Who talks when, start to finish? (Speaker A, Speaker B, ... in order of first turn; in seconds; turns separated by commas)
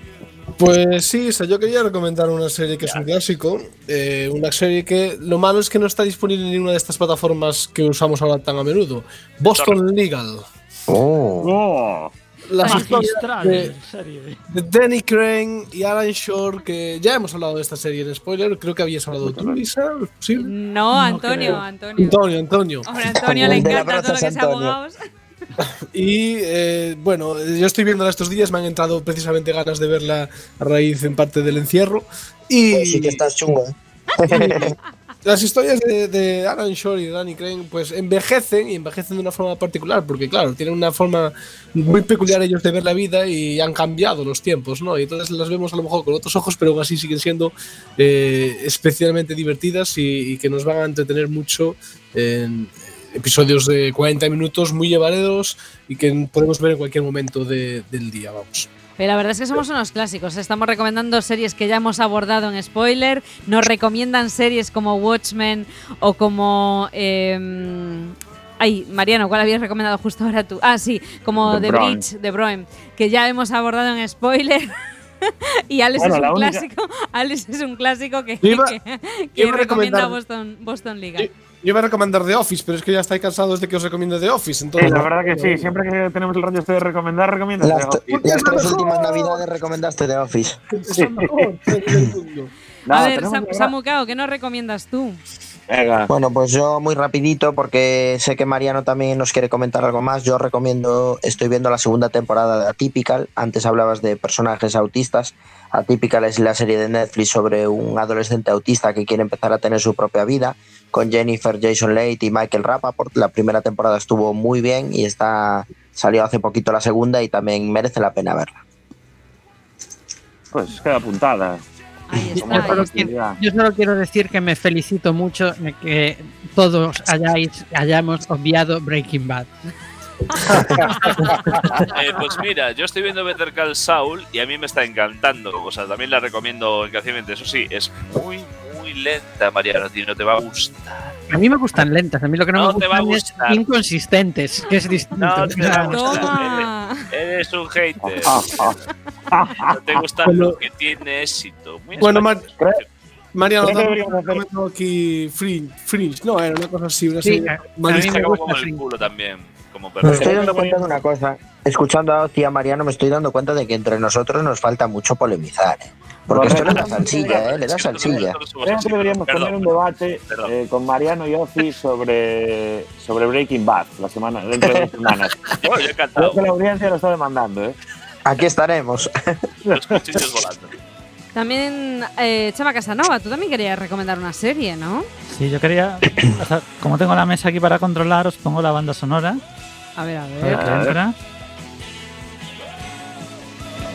Speaker A: 0.6-10.4, Speaker B: 2.8-3.1, Speaker B: 9.5-9.8, Speaker C: 10.9-11.5, Speaker D: 11.4-12.1, Speaker A: 12.5-13.7, Speaker E: 12.6-14.4, Speaker F: 12.6-12.9, Speaker A: 14.5-20.5, Speaker D: 19.2-19.6, Speaker F: 20.4-22.2, Speaker E: 20.9-21.6, Speaker A: 21.3-23.7, Speaker F: 22.8-25.0, Speaker C: 23.2-24.8, Speaker A: 25.9-33.2, Speaker C: 32.7-34.8, Speaker A: 34.3-58.7, Speaker F: 59.0-74.7, Speaker D: 71.4-72.0, Speaker F: 75.3-81.3, Speaker D: 76.0-76.6, Speaker A: 78.4-78.7, Speaker A: 79.4-80.2, Speaker A: 81.2-85.8, Speaker D: 84.8-88.7, Speaker C: 87.6-90.6, Speaker A: 88.2-89.4, Speaker A: 90.8-92.5, Speaker D: 90.9-91.5, Speaker D: 92.9-93.7, Speaker F: 92.9-95.2, Speaker D: 95.7-96.1, Speaker C: 96.1-118.6, Speaker D: 120.5-121.6, Speaker F: 122.1-123.0, Speaker D: 122.3-123.4, Speaker G: 122.4-129.5, Speaker F: 130.4-131.6, Speaker D: 130.6-131.6, Speaker B: 131.8-141.2, Speaker G: 141.3-145.9, Speaker B: 142.5-143.6, Speaker B: 145.2-148.8, Speaker F: 145.9-147.0, Speaker D: 148.0-150.0, Speaker B: 149.7-152.8, Speaker A: 150.2-150.6, Speaker A: 152.0-152.4, Speaker D: 152.6-152.8, Speaker A: 153.3-158.6, Speaker D: 153.6-154.4, Speaker G: 157.2-158.8, Speaker B: 157.9-160.6, Speaker C: 160.1-168.4, Speaker D: 160.1-160.8, Speaker D: 166.3-167.4, Speaker B: 167.1-170.5, Speaker D: 168.1-175.6, Speaker B: 175.6-176.4, Speaker D: 176.1-177.8, Speaker C: 178.2-179.1, Speaker D: 179.7-180.0, Speaker B: 179.7-180.7, Speaker F: 181.3-185.1, Speaker E: 185.3-189.4, Speaker F: 190.0-190.8, Speaker E: 190.4-191.1, Speaker D: 190.5-191.0